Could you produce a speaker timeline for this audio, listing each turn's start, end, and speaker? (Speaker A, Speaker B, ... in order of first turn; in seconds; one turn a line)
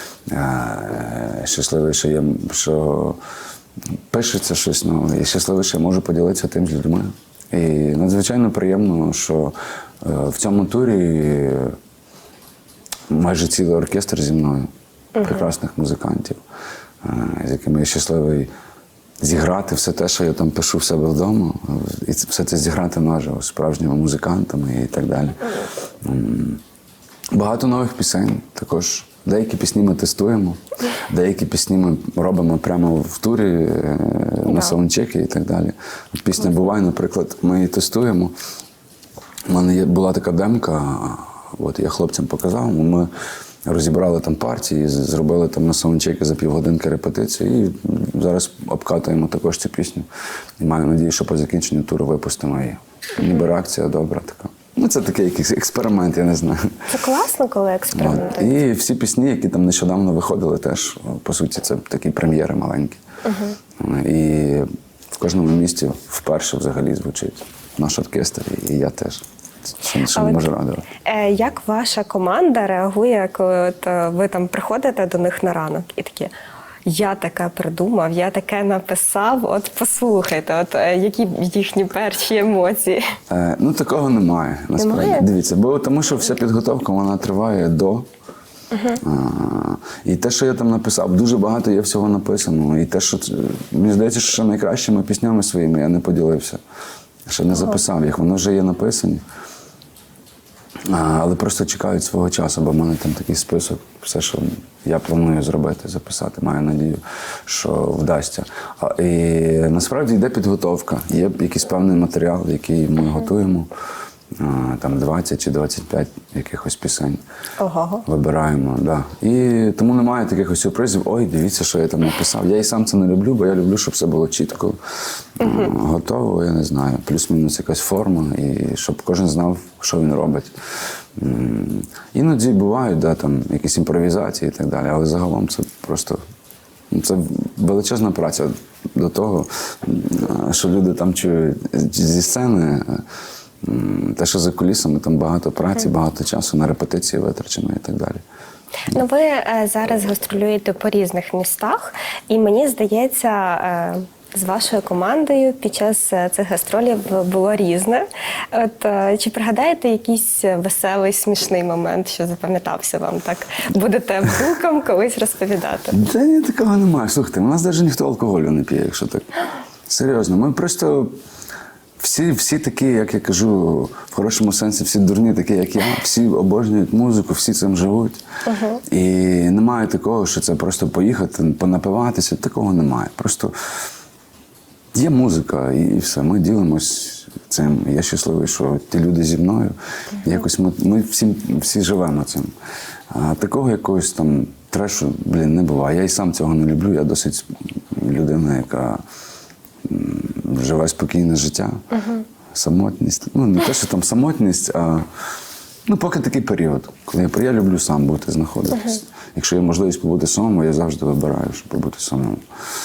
Speaker A: 0.2-3.2
Speaker A: 4.1-11.8
Speaker A: 13.1-16.4
Speaker B: 15.1-15.5
Speaker A: 17.0-18.5
Speaker A: 19.2-26.6
Speaker A: 27.3-38.3
Speaker A: 39.5-43.1
Speaker A: 43.6-50.1
Speaker A: 50.6-56.9
Speaker B: 56.9-58.5
Speaker A: 57.9-63.0
Speaker B: 63.2-63.5
Speaker A: 63.8-70.8
Speaker B: 70.1-70.5
Speaker B: 71.0-76.3
Speaker B: 76.8-83.1
Speaker A: 83.3-88.1
Speaker B: 84.8-85.3
Speaker A: 89.0-96.6
Speaker A: 97.3-99.2
Speaker A: 100.8-113.7
Speaker A: 114.3-117.2
Speaker B: 117.6-118.0
Speaker A: 118.0-124.8
Speaker A: 125.4-130.5
Speaker B: 125.4-125.7
Speaker A: 131.1-136.2
Speaker A: 136.9-143.0
Speaker A: 143.6-148.2
Speaker B: 148.9-166.0
Speaker A: 165.9-169.3
Speaker A: 169.9-171.1
Speaker A: 172.0-178.2
Speaker B: 178.4-178.8
Speaker A: 178.9-183.5
Speaker A: 184.9-192.5
Speaker A: 193.1-199.0
Speaker A: 199.8-201.8
Speaker A: 202.5-205.1
Speaker A: 205.8-212.4